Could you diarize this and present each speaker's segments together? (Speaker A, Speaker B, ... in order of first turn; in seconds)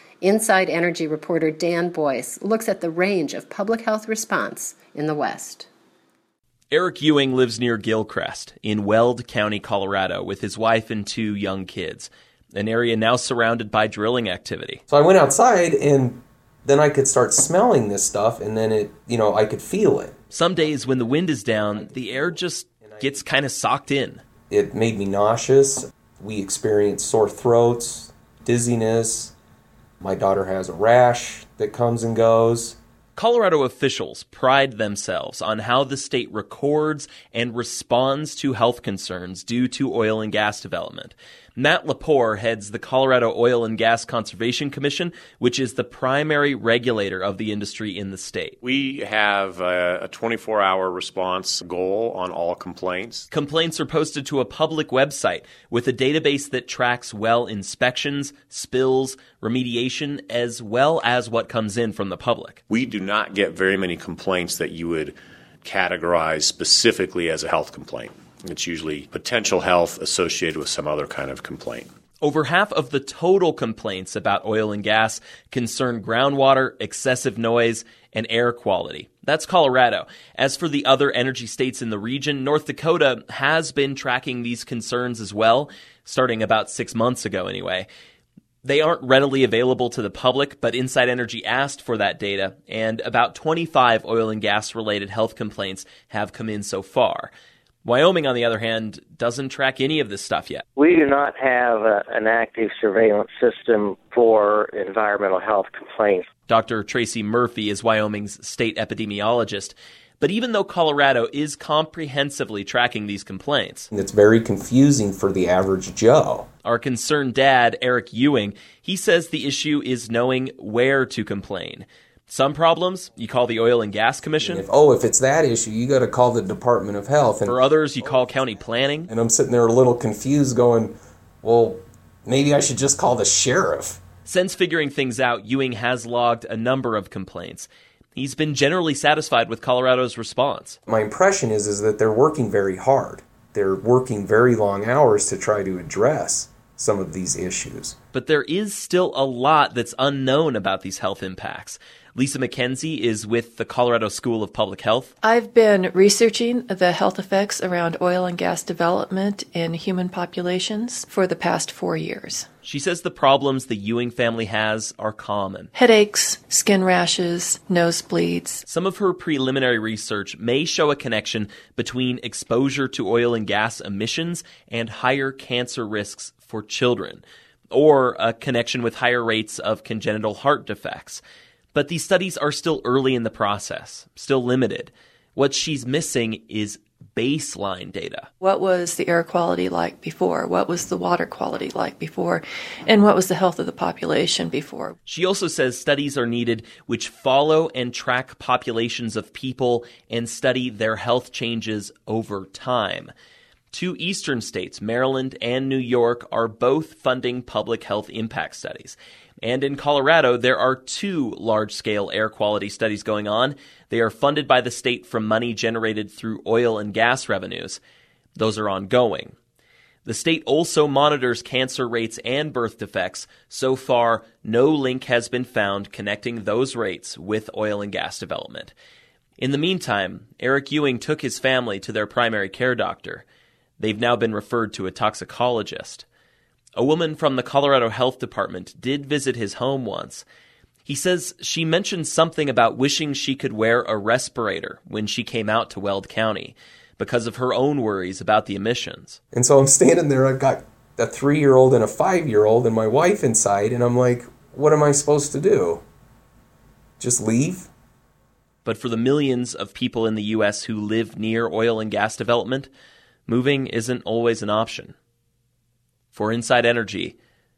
Speaker A: 0.2-5.7
Speaker B: 6.7-14.8, 20.3-24.2, 33.2-48.6, 53.3-62.6, 72.2-87.9, 88.6-97.3, 97.8-100.6, 106.5-113.9, 116.7-124.7, 127.5-129.1, 134.3-140.8, 148.1-155.1, 162.6-165.7, 168.7-181.2, 181.7-188.3, 195.1-203.1, 203.7-217.8, 218.4-219.3, 220.1-228.7, 229.4-233.2, 233.8-236.1, 236.8-240.2, 240.9-249.2, 258.6-262.7, 263.3-264.9, 266.1-267.1
Speaker C: 14.9-23.2, 24.5-29.3, 30.0-32.8, 113.9-116.5, 124.4-127.6, 129.1-134.0, 140.9-148.0, 249.3-255.8, 257.0-257.7
Speaker D: 48.6-53.3, 62.7-71.9
Speaker E: 100.8-106.3
Speaker F: 155.2-162.5, 165.7-168.7, 188.4-194.9